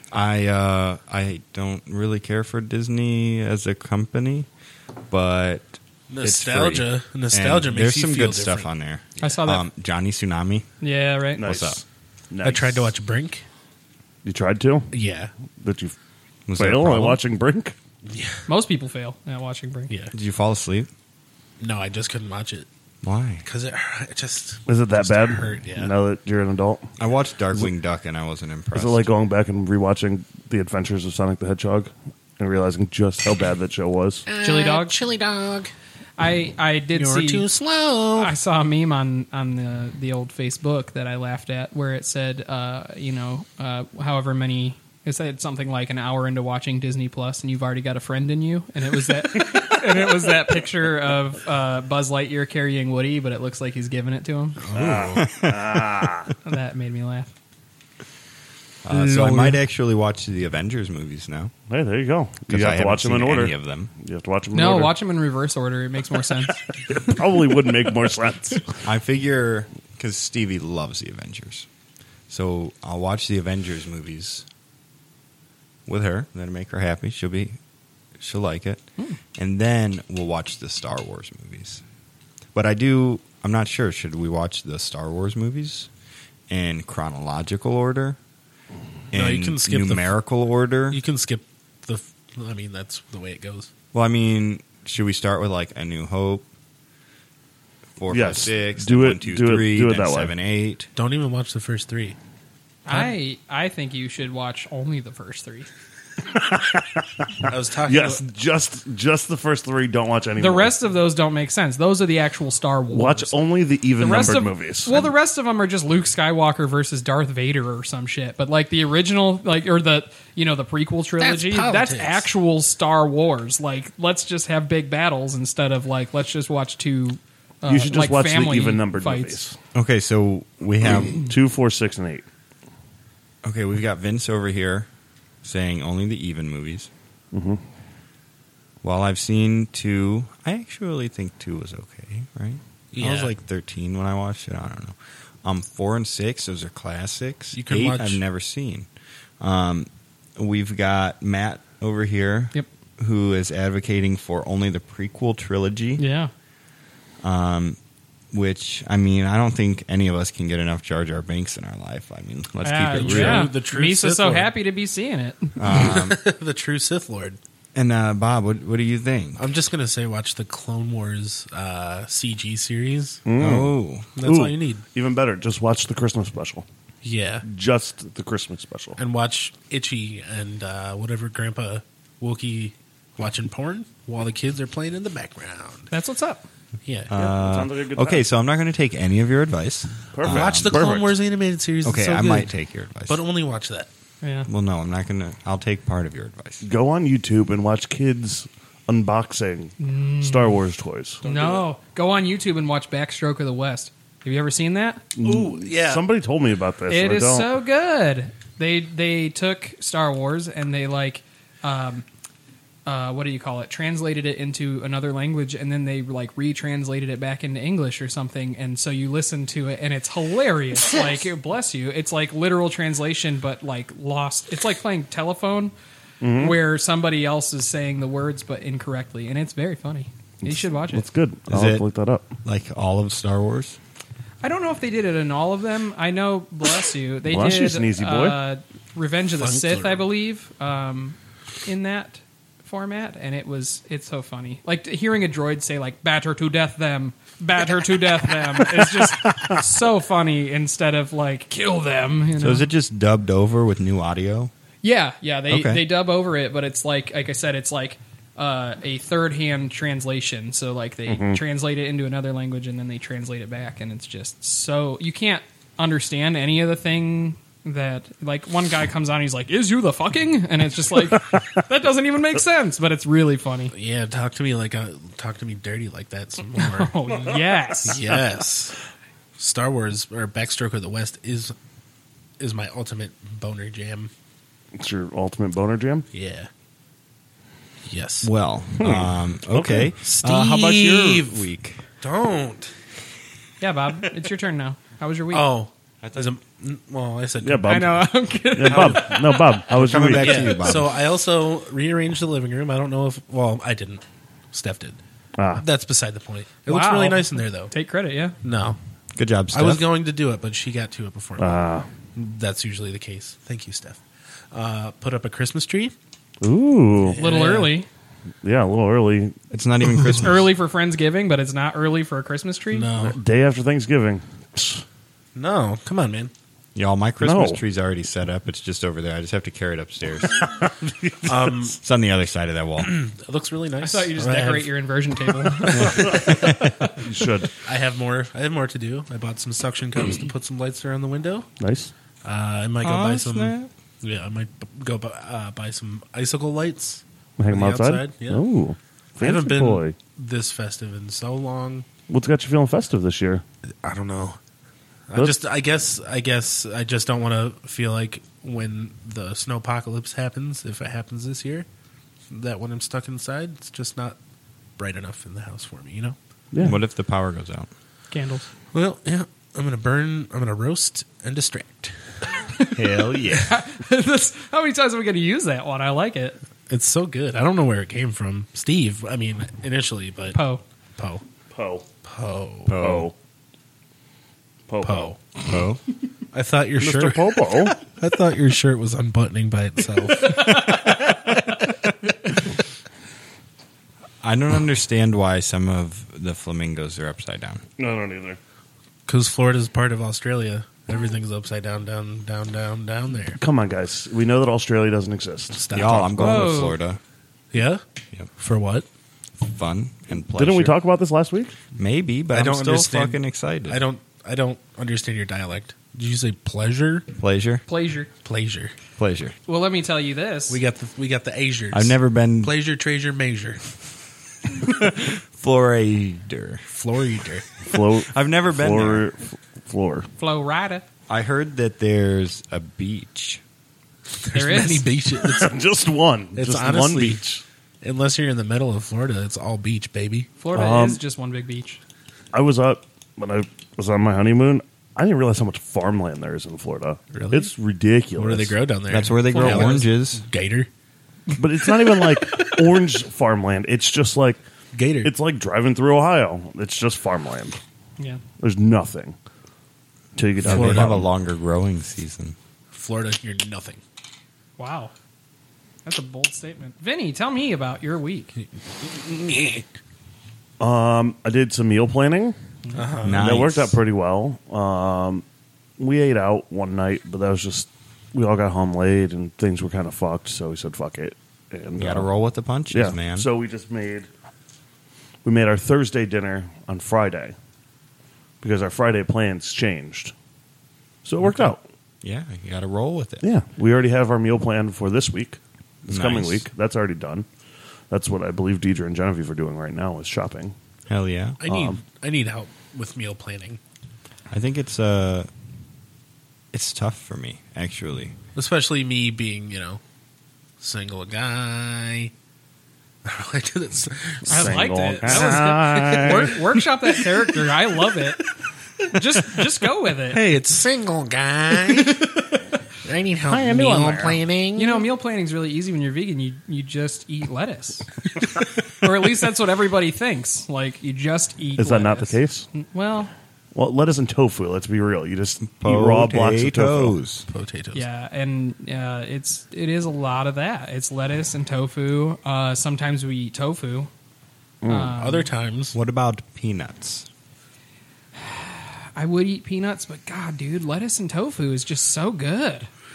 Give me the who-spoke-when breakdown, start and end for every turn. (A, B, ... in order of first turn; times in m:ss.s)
0:00.1-0:04.5 A
0:05.1-0:10.7 A
0:06.1-0:08.7 B
0:09.2-0:09.6 C
0:10.8-0:11.5 C
0:11.4-0:13.0 D
0:11.4-0:11.8 A
0:12.4-0:13.4 B
0:14.2-0:14.9 D
0:14.9-0:15.3 B
0:15.6-0:16.0 D
0:16.5-0:17.2 A
0:16.6-0:17.8 D
0:18.1-0:18.4 B
0:18.5-0:19.9 C
0:20.1-0:20.9 A
0:21.6-0:22.7 B
0:23.0-0:23.4 A
0:23.4-0:25.9 B
0:24.7-0:26.9 D
0:27.0-0:29.1 A
0:28.7-0:34.3 D
0:34.3-0:35.7 B
0:34.4-0:35.0 C
0:36.2-0:37.5 C
0:37.0-0:38.3 B
0:38.2-0:54.6 C
0:54.6-0:55.3 B
0:54.7-0:56.3 D
0:55.2-0:55.8 A
0:56.4-0:57.3 C
0:58.8-1:01.5 A
0:58.9-0:59.6 B
1:01.7-1:04.9 D
1:02.5-1:03.9 A
1:04.5-1:06.6 C
1:06.9-1:08.7 D
1:08.8-1:11.7 A
1:12.3-1:14.4 A
1:15.9-1:17.6 A
1:18.2-1:21.8 A
1:22.6-1:25.9 A
1:26.5-1:28.2 A
1:29.1-1:31.0 A
1:29.1-1:30.1 B
1:30.9-1:33.7 B
1:33.9-1:36.5 A
1:38.0-1:40.9 A
1:38.1-1:40.3 D
1:41.0-1:42.2 B
1:42.9-1:45.7 C
1:46.2-1:50.7 D
1:47.4-1:48.2 B
1:50.4-1:53.4 C
1:52.9-1:55.1 D
1:54.0-2:09.4 C
2:01.2-2:02.3 B
2:07.6-2:09.6 D
2:09.7-2:11.3 A
2:11.1-2:12.3 D
2:13.4-2:14.9 A
2:15.4-2:16.9 A
2:17.3-2:17.6 D
2:18.8-2:28.9 A
2:22.9-2:23.3 B
2:27.5-2:28.2 B
2:29.4-2:36.0 A
2:36.0-2:36.3 C
2:37.2-2:37.8 A
2:38.3-2:43.5 A
2:42.6-2:45.6 C
2:42.9-2:44.5 B
2:45.6-2:46.2 A
2:45.6-2:47.4 B
2:47.8-2:49.4 A
2:49.4-2:53.2 B
2:53.3-2:56.6 D
2:53.4-2:54.1 A
2:54.2-2:54.8 B
2:57.0-2:57.4 B
2:57.4-2:59.0 D
2:59.0-3:05.9 B
3:05.9-3:06.5 C
3:06.8-3:07.1 B
3:07.1-3:10.8 A
3:07.1-3:08.2 D
3:10.1-3:11.2 D
3:10.2-3:12.5 B
3:11.8-3:13.2 A
3:13.1-3:13.9 B
3:14.2-3:14.5 C
3:14.5-3:16.6 A
3:16.6-3:21.2 D
3:19.8-3:20.6 C
3:21.2-3:25.1 C
3:21.2-3:21.6 B
3:25.2-3:27.5 D
3:25.2-3:26.0 B
3:26.9-3:32.0 C
3:32.9-3:45.7 C
3:46.2-3:46.6 D
3:46.3-3:51.1 C
3:50.4-3:52.3 D
3:51.5-3:51.8 A
3:52.4-3:53.8 A
3:54.4-4:12.7 C
3:57.3-3:58.4 D
3:59.4-4:00.0 B
4:12.4-4:14.5 A
4:14.8-4:33.7 C
4:15.5-4:15.8 A
4:21.1-4:21.4 D
4:33.7-4:36.9 B
4:36.6-4:38.0 C
4:37.8-4:38.8 B
4:39.4-4:41.6 B
4:42.4-4:44.1 B
4:44.8-4:46.1 D
4:46.1-4:46.5 B
4:47.9-4:48.3 B
4:48.2-4:51.9 A
4:48.8-4:49.1 D
4:49.6-4:51.5 B
4:52.0-4:52.7 B
4:53.6-4:55.5 C
4:55.3-4:57.8 B
4:57.4-5:00.6 D
4:57.6-4:59.6 C
4:59.7-5:01.0 A
5:00.2-5:05.0 B
5:05.4-5:05.6 D
5:05.6-5:07.7 B
5:06.7-5:08.4 C
5:08.4-5:08.8 B
5:09.2-5:09.8 A
5:09.5-5:11.6 B
5:11.4-5:11.9 D
5:12.2-5:15.9 B
5:16.4-5:17.2 D
5:17.0-5:17.8 B
5:17.2-5:17.9 C
5:18.4-5:19.4 D
5:19.5-5:20.5 A
5:20.2-5:22.9 C
5:22.7-5:23.2 B
5:23.0-5:24.8 D
5:25.4-5:26.3 B
5:26.8-5:30.5 A
5:27.2-5:27.6 D
5:30.4-5:31.3 D
5:31.2-5:31.8 B
5:31.7-5:32.9 A
5:32.8-5:36.5 B
5:33.8-5:37.0 C
5:35.8-5:37.5 D
5:37.6-5:41.5 B
5:41.6-5:41.9 D
5:42.2-5:48.4 B
5:42.8-5:43.7 A
5:47.4-5:50.0 D
5:49.2-5:51.9 B
5:52.1-5:53.4 D
5:53.8-5:54.4 B
5:55.1-6:01.7 B
5:55.2-5:55.4 D
6:02.3-6:04.2 B
6:04.8-6:06.2 B
6:06.5-6:06.8 D
6:06.6-6:07.7 A
6:08.1-6:08.5 C
6:08.7-6:12.2 B
6:12.6-6:16.4 C
6:12.7-6:13.6 A
6:16.7-6:20.4 B
6:20.3-6:20.6 C
6:21.0-6:21.2 B
6:21.5-6:21.9 D
6:22.0-6:22.8 B
6:22.7-6:23.1 A
6:22.8-6:23.2 D
6:24.7-6:25.2 D
6:24.8-6:25.2 B
6:25.5-6:25.8 A
6:26.3-6:30.7 B
6:26.8-6:27.8 D
6:30.3-6:30.8 C
6:34.2-6:37.6 A
6:37.8-6:38.4 D
6:39.1-6:43.4 B
6:43.4-6:46.4 D
6:45.6-6:46.4 B
6:45.7-6:47.0 A
6:46.2-6:46.8 C
6:47.5-6:47.8 B
6:48.4-6:48.9 B
6:49.4-6:50.8 A
6:50.3-6:51.6 D
6:51.8-6:53.8 A
6:52.3-6:57.1 B
6:57.2-6:57.6 A
6:57.7-6:58.1 C
6:58.2-6:58.8 B
6:59.0-6:59.4 A
6:59.5-7:00.6 C
7:00.5-7:03.6 B
7:01.7-7:02.5 A
7:04.6-7:06.7 A
7:06.7-7:07.5 B
7:07.6-7:10.1 D
7:08.1-7:09.1 A
7:10.2-7:10.8 C
7:11.1-7:13.4 A
7:14.2-7:15.6 B
7:14.3-7:14.9 C
7:15.2-7:17.4 D
7:16.4-7:17.2 B
7:17.8-7:20.3 B
7:20.4-7:21.8 C
7:20.5-7:21.0 D
7:22.3-7:28.6 D
7:27.1-7:27.5 B
7:28.2-7:30.7 B
7:28.9-7:30.2 A
7:29.3-7:29.9 C
7:31.4-7:34.4 D
7:34.7-7:35.1 B
7:35.0-7:37.6 D
7:38.4-7:39.2 D
7:40.2-7:41.1 D
7:40.4-7:42.4 A
7:40.5-7:41.0 B
7:42.7-7:43.8 B
7:44.6-7:44.9 C
7:45.8-7:48.3 C
7:48.4-7:49.7 B
7:50.6-7:52.4 D
7:52.6-7:52.9 C
7:52.8-7:53.4 B
7:53.0-7:53.8 A
7:53.2-7:55.2 D
7:55.8-8:02.1 D
8:01.8-8:03.3 A
8:02.7-8:04.1 D
8:05.2-8:07.4 D
8:08.4-8:10.1 D
8:11.0-8:11.6 D
8:11.2-8:13.2 A
8:13.2-8:17.3 D
8:15.9-8:16.4 A
8:17.9-8:20.6 D
8:20.9-8:21.4 A
8:21.4-8:23.6 B
8:21.5-8:21.8 D
8:24.3-8:25.3 A
8:26.5-8:28.2 A
8:28.4-8:29.8 B
8:30.6-8:32.1 B
8:33.0-8:36.6 B
8:34.3-8:36.4 D
8:34.3-8:38.3 C
8:38.9-8:40.2 C
8:40.1-8:42.2 B
8:41.8-8:42.4 C
8:42.8-8:44.9 B
8:43.3-8:44.2 D
8:44.6-8:48.2 C
8:48.8-8:53.1 C
8:51.6-8:52.5 D
8:53.5-8:57.0 D
8:55.4-8:57.3 A
8:57.3-8:57.8 B
8:57.7-9:03.9 C
9:04.6-9:05.0 D
9:04.7-9:05.3 C
9:05.0-9:05.8 B
9:05.7-9:07.1 A
9:08.2-9:12.7 C